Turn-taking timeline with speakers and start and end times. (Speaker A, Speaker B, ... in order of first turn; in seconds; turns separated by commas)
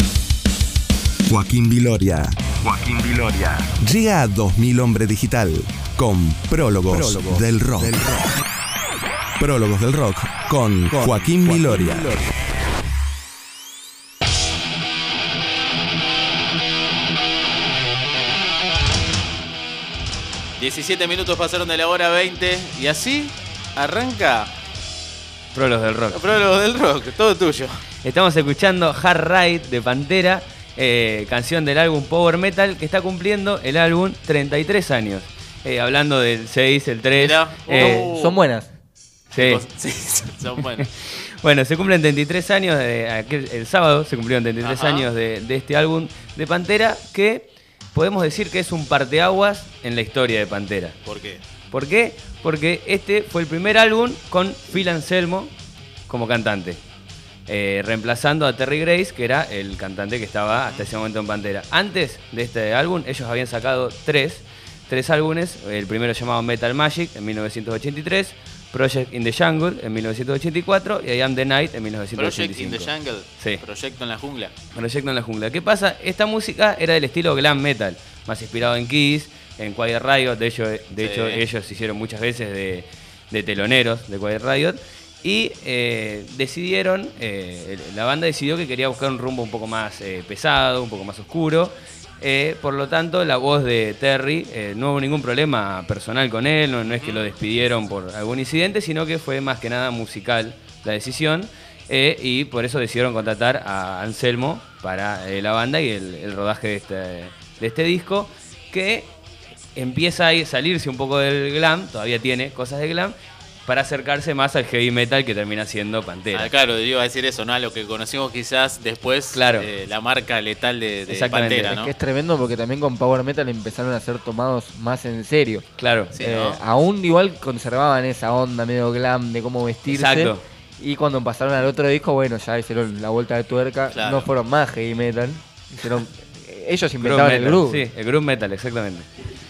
Speaker A: 1.3-8.3, Speaker A: 9.4-12.1, Speaker B: 20.6-24.5, Speaker C: 25.5-26.3, Speaker B: 26.1-27.9, Speaker C: 28.0-38.1, Speaker B: 37.1-38.4, Speaker D: 37.7-38.7, Speaker C: 39.3-39.6, Speaker B: 39.3-40.9, Speaker C: 40.6-51.0, Speaker B: 44.6-45.1, Speaker B: 51.0-51.4, Speaker C: 51.7-55.5, Speaker C: 56.1-56.8, Speaker C: 57.5-73.6, Speaker B: 72.2-74.5, Speaker C: 74.7-109.1, Speaker B: 81.0-81.4, Speaker B: 96.8-97.3, Speaker C: 109.8-113.1, Speaker C: 113.7-116.5, Speaker B: 116.3-121.9, Speaker C: 119.3-119.7, Speaker C: 121.1-121.7, Speaker D: 121.7-125.6, Speaker C: 125.8-126.1, Speaker B: 126.1-126.6, Speaker D: 126.2-137.8, Speaker C: 129.9-130.4, Speaker B: 133.9-134.3, Speaker C: 137.0-139.1